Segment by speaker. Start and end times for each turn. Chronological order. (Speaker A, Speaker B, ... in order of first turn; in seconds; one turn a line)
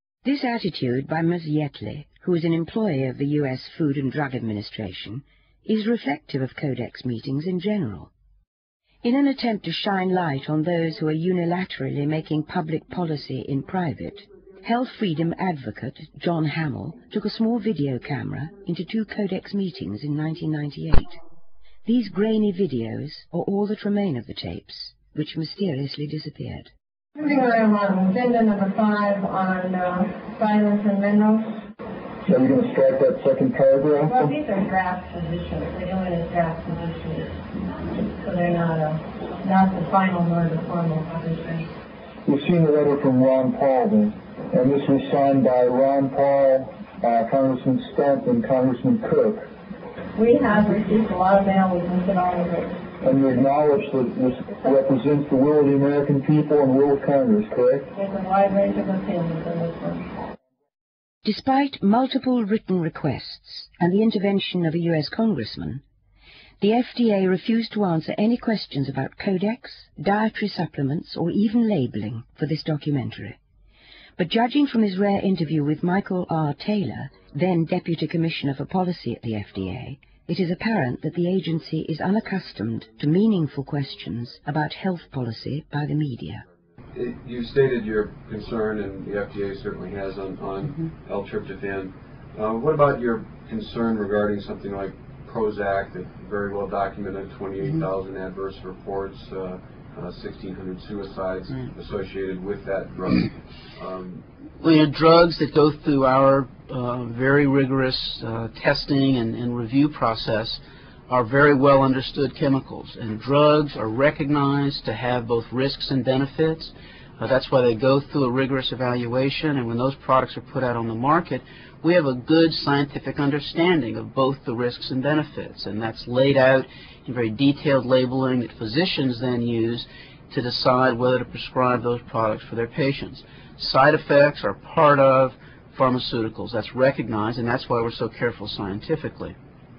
Speaker A: 0.2-8.1
Speaker A: 9.0-21.2
Speaker A: 21.9-26.7
Speaker B: 27.2-31.6
Speaker C: 32.3-34.3
Speaker B: 34.0-41.7
Speaker C: 42.3-49.5
Speaker B: 50.1-53.7
Speaker C: 53.0-57.9
Speaker B: 54.5-55.0
Speaker B: 57.9-60.1
Speaker A: 61.2-65.8
Speaker A: 66.6-73.4
Speaker A: 74.2-86.4
Speaker D: 86.9-104.2
Speaker E: 104.6-139.3